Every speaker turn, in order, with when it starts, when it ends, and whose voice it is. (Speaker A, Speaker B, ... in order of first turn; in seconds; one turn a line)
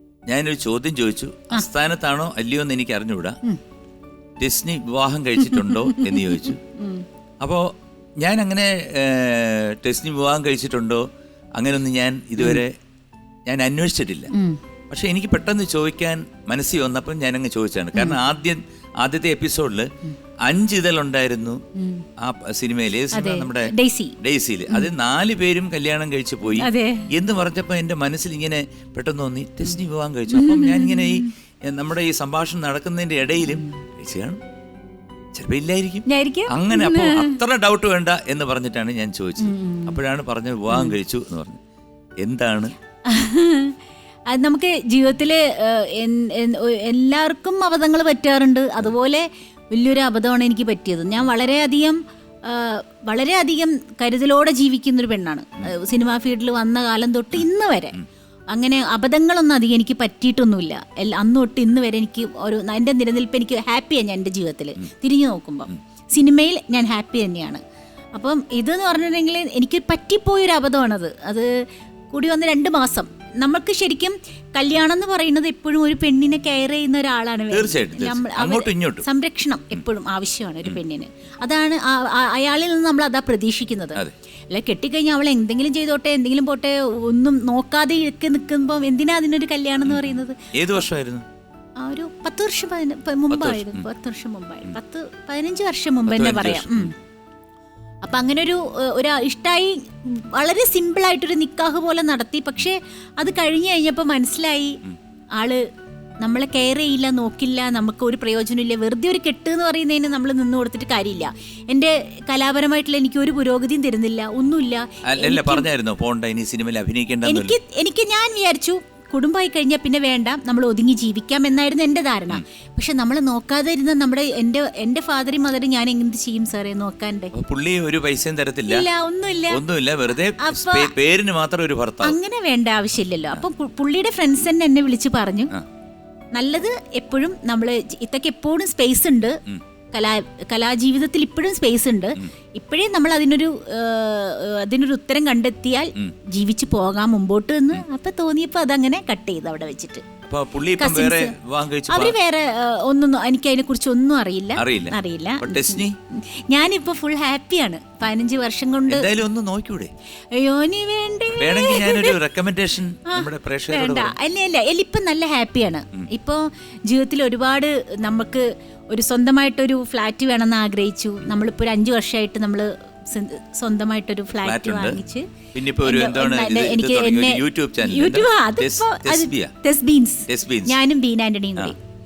Speaker A: 0.3-3.4
Speaker A: 4.4-6.6
Speaker B: 5.4-7.0
Speaker A: 7.4-7.7
Speaker A: 8.2-11.1
Speaker A: 11.6-12.8
Speaker A: 13.5-14.3
Speaker B: 14.3-14.6
Speaker A: 14.9-19.9
Speaker B: 17.9-18.2
Speaker A: 20.5-21.6
Speaker B: 21.8-22.1
Speaker A: 22.2-34.4
Speaker B: 23.1-24.2
Speaker B: 26.6-27.1
Speaker B: 30.3-31.3
Speaker B: 33.5-33.7
Speaker A: 35.4-41.6
Speaker B: 36.1-37.4
Speaker B: 39.4-40.0
Speaker A: 42.2-42.7
Speaker B: 43.0-43.8
Speaker B: 44.3-58.0
Speaker B: 58.5-67.6
Speaker B: 68.2-71.5
Speaker B: 72.1-84.0
Speaker A: 77.5-79.0
Speaker B: 84.5-90.8
Speaker A: 89.9-91.2
Speaker B: 91.8-96.9
Speaker A: 93.3-93.9
Speaker A: 96.1-96.9
Speaker B: 98.0-104.8
Speaker B: 105.4-105.6
Speaker B: 106.2-115.7
Speaker A: 115.1-117.6
Speaker B: 117.2-127.3
Speaker A: 127.3-128.9
Speaker B: 128.7-129.6
Speaker A: 129.5-132.2
Speaker B: 130.4-130.9
Speaker B: 132.0-135.5
Speaker B: 136.3-139.4
Speaker B: 139.9-150.0
Speaker A: 150.2-152.2
Speaker B: 150.8-151.3
Speaker B: 151.9-159.1
Speaker A: 154.6-155.9
Speaker A: 158.9-159.9
Speaker B: 160.3-162.2
Speaker A: 161.3-164.1
Speaker B: 163.1-175.3
Speaker A: 174.4-175.0
Speaker A: 175.5-179.5
Speaker B: 175.8-181.8
Speaker A: 180.3-180.8